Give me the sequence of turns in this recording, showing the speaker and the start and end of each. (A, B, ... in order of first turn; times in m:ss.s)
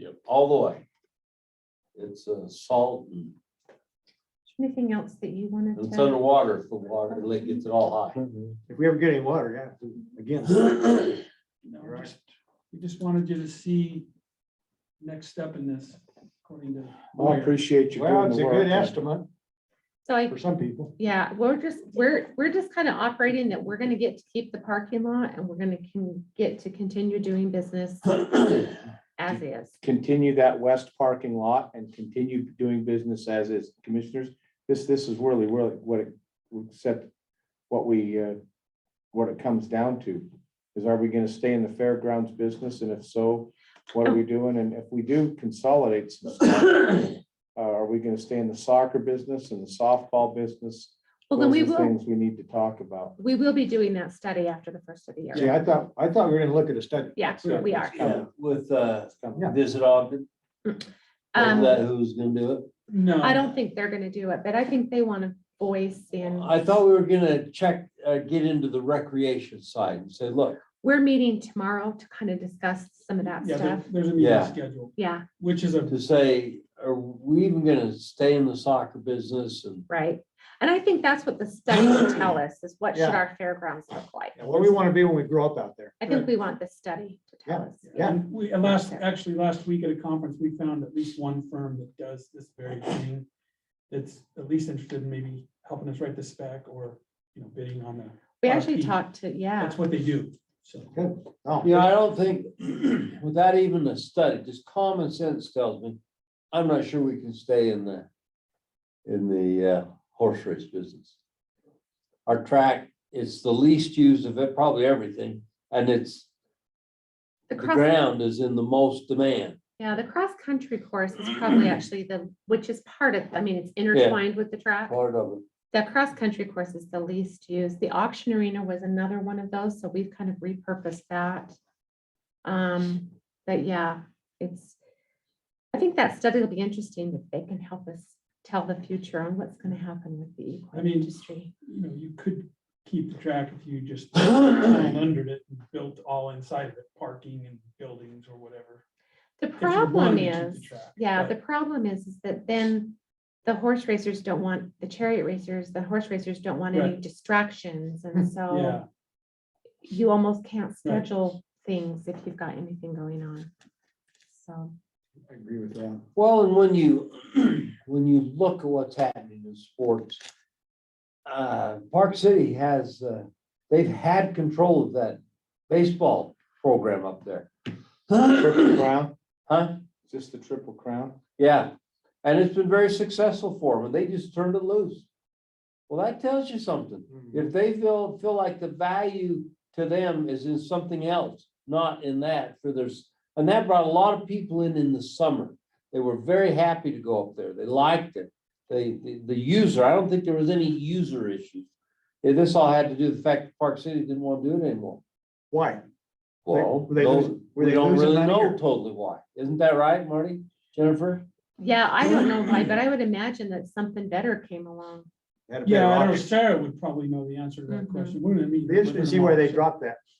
0:00.2-0:00.8 A
0:02.0-0:03.3 A
0:04.5-0:06.2 B
0:05.8-0:08.2 A
0:06.9-0:07.6 B
0:08.7-0:11.1 C
0:11.6-0:14.1 D
0:11.8-0:12.1 C
0:15.0-0:17.5 D
0:17.1-0:19.0 E
0:17.9-0:19.3 C
0:20.0-0:20.4 B
0:20.3-0:20.9 C
0:21.0-0:29.7 B
0:29.8-0:37.1 E
0:37.7-0:38.4 E
0:39.1-0:53.1 E
0:51.3-0:51.9 B
0:53.2-0:55.5 B
0:55.3-0:58.2 C
0:57.2-0:58.1 B
0:58.0-1:00.3 A
0:59.2-0:59.5 E
1:00.6-1:01.7 B
1:01.4-1:02.7 A
1:02.9-1:03.5 D
1:03.2-1:06.5 B
1:06.2-1:10.6 A
1:10.8-1:13.9 B
1:13.3-1:15.9 D
1:14.2-1:14.6 A
1:15.0-1:15.3 B
1:15.9-1:19.8 A
1:19.9-1:24.8 B
1:22.9-1:23.2 C
1:24.4-1:26.0 C
1:26.0-1:28.0 B
1:27.5-1:28.6 C
1:27.8-1:33.3 D
1:28.6-1:29.0 B
1:33.9-1:39.0 D
1:38.4-1:39.8 B
1:39.6-1:40.9 D
1:41.0-1:41.9 C
1:41.6-1:46.0 A
1:46.5-1:48.1 A
1:49.0-1:51.2 A
1:52.3-1:56.3 A
1:57.5-1:57.9 B
1:57.5-1:59.6 A
1:59.8-2:05.0 B
2:03.9-2:04.2 A
2:04.9-2:05.4 A
2:05.7-2:11.6 B
2:12.4-2:14.8 B
2:15.7-2:21.5 B
2:20.7-2:21.1 D
2:21.6-2:28.8 D
2:29.4-2:38.8 B
2:29.6-2:31.3 D
2:38.5-2:38.8 D
2:39.8-2:43.5 B
2:44.3-2:44.7 B
2:45.3-2:46.0 C
2:46.2-2:50.2 A
2:51.2-2:57.5 A
2:58.1-2:58.8 A
2:58.4-2:59.1 E
2:59.5-2:59.8 A
3:00.1-3:01.2 E
3:01.4-3:01.7 A
3:02.2-3:05.1 A
3:05.9-3:21.7 A
3:22.2-3:25.0 A
3:25.5-3:25.8 C
3:26.5-3:31.2 A
3:26.5-3:28.6 C
3:31.6-3:35.1 B
3:35.5-3:36.3 C
3:35.6-3:39.7 D
3:37.7-3:38.2 B
3:38.6-3:40.0 C